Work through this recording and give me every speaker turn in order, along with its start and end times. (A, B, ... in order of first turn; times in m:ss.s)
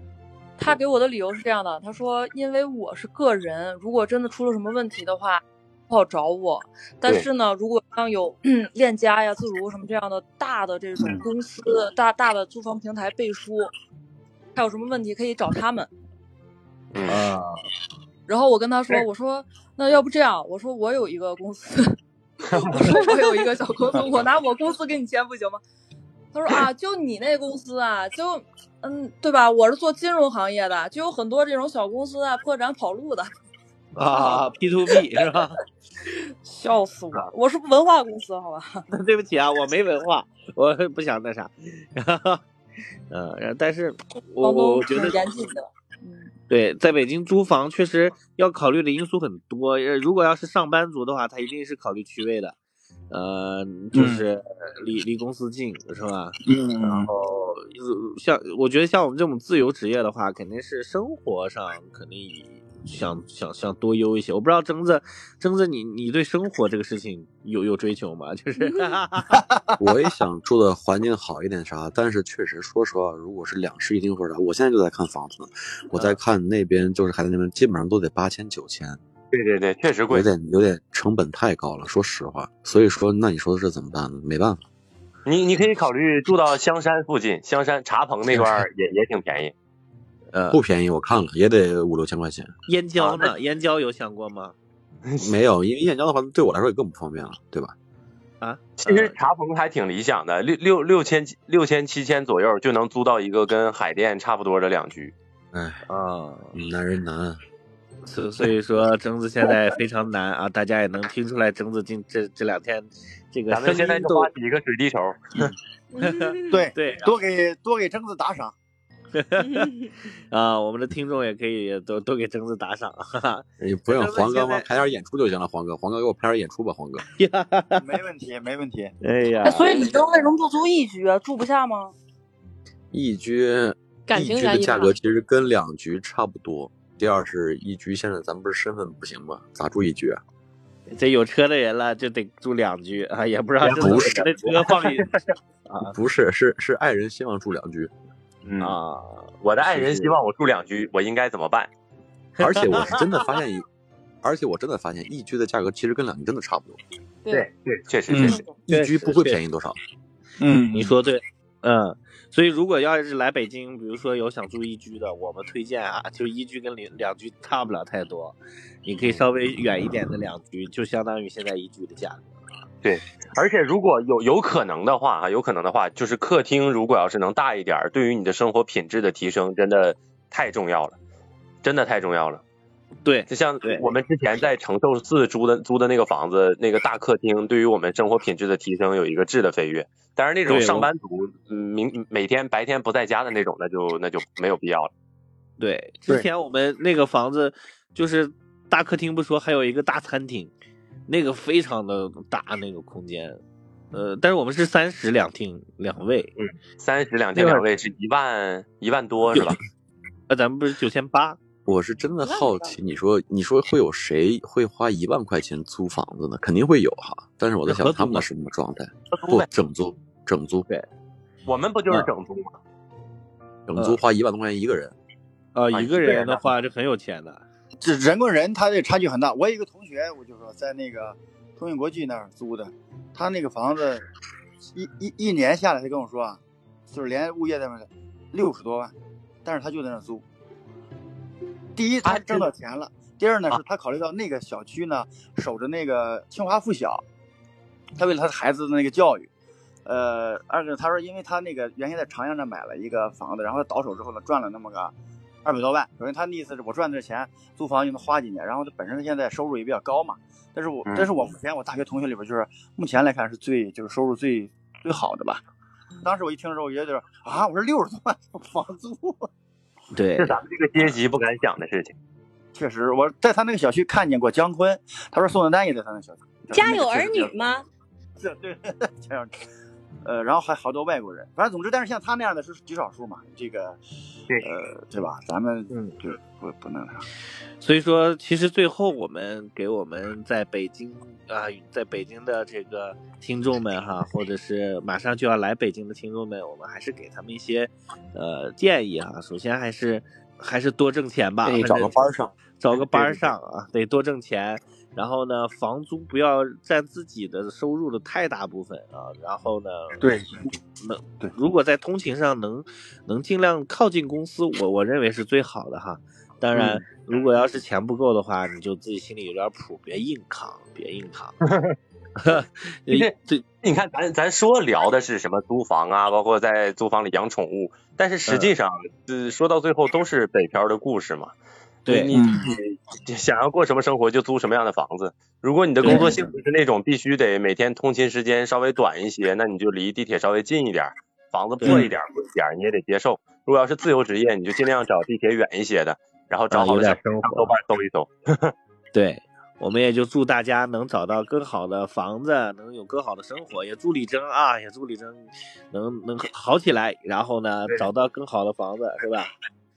0:00.6-0:13.7 A
0:14.5-0:15.9 A
0:16.9-0:17.2 B
0:17.0-0:17.6 C
0:18.3-0:22.0 A
0:22.5-0:25.6 A
0:26.3-0:33.3 A
0:33.9-0:35.6 C
0:34.1-0:34.4 A
0:36.4-0:38.8 A
0:38.9-0:42.4 C
0:43.1-0:45.2 C
0:44.4-0:46.3 A
0:46.5-0:52.5 C
0:53.1-1:09.4 C
0:53.9-0:54.2 D
0:56.4-0:57.1 D
1:09.3-1:09.7 D
1:09.8-1:19.0 E
1:19.3-1:20.3 B
1:20.1-1:24.6 E
1:25.2-1:29.5 B
1:30.3-1:30.6 C
1:30.5-1:32.5 E
1:32.7-1:34.5 C
1:33.0-1:33.3 B
1:35.0-1:35.3 B
1:35.2-1:37.7 E
1:38.4-1:39.2 C
1:38.8-1:45.1 B
1:45.5-1:45.8 E
1:45.9-1:46.5 C
1:46.5-1:47.4 E
1:48.0-1:54.3 C
1:53.5-1:55.2 B
1:55.9-1:56.6 F
1:56.0-1:57.1 C
1:56.5-1:58.5 D
1:59.1-1:59.7 C
2:00.3-2:04.6 C
2:03.6-2:07.0 E
2:07.1-2:07.8 C
2:07.8-2:08.9 D
2:09.0-2:09.8 C
2:09.4-2:11.9 A
2:12.9-2:20.2 E
2:14.1-2:14.9 F
2:20.9-2:25.1 C
2:23.6-2:25.2 B
2:23.6-2:24.2 E
2:25.7-2:25.9 C
2:25.9-2:27.9 E
2:28.4-2:28.8 B
2:28.6-2:30.2 C
2:29.4-2:31.7 B
2:32.4-2:33.0 C
2:32.4-2:33.6 E
2:34.2-2:36.8 E
2:37.3-2:38.4 B
2:38.1-2:38.4 D
2:38.2-2:38.6 F
2:38.7-2:39.8 E
2:38.7-2:39.4 C
2:40.4-2:41.0 D
2:40.7-2:52.5 C
2:52.8-3:01.0 B
3:01.6-3:02.4 B
3:03.0-3:03.9 C
3:03.3-3:14.9 B
3:10.4-3:10.9 C
3:15.6-3:20.5 C
3:21.1-3:23.4 C
3:23.9-3:26.3 C
3:26.4-3:29.6 B
3:27.4-3:27.6 C
3:29.3-3:29.6 C
3:30.3-3:31.4 C
3:31.6-3:40.7 E
3:37.7-3:38.2 C
3:39.1-3:39.4 B
3:41.4-3:42.6 B
3:43.7-3:45.0 E
3:45.5-3:47.4 C
3:45.7-3:46.4 B
3:47.8-3:54.0 D
3:54.7-3:58.9 D
3:59.4-4:00.2 D
4:01.8-4:07.0 D
4:02.0-4:02.5 B
4:08.0-4:09.3 D
4:09.8-4:14.9 D
4:15.4-4:25.4 D
4:26.0-4:29.3 D
4:29.9-4:30.4 C
4:30.2-4:31.9 B
4:32.5-4:37.3 D
4:36.5-4:37.6 F
4:38.2-4:39.4 D
4:40.0-4:43.8 D
4:44.4-4:47.1 D
4:45.7-4:46.0 C
4:47.6-5:02.0 C
5:01.4-5:03.2 E
5:02.5-5:10.2 C
5:10.0-5:10.4 D
5:10.8-5:21.4 C
5:21.4-5:21.8 B
5:22.2-5:23.4 C
5:22.9-5:31.3 B
5:31.8-5:32.2 C
5:31.9-5:48.5 B
5:32.1-5:32.5 D
5:35.8-5:36.3 C
5:35.8-5:36.1 D
5:41.6-5:41.9 C
5:46.5-5:47.5 C
5:48.9-5:59.3 C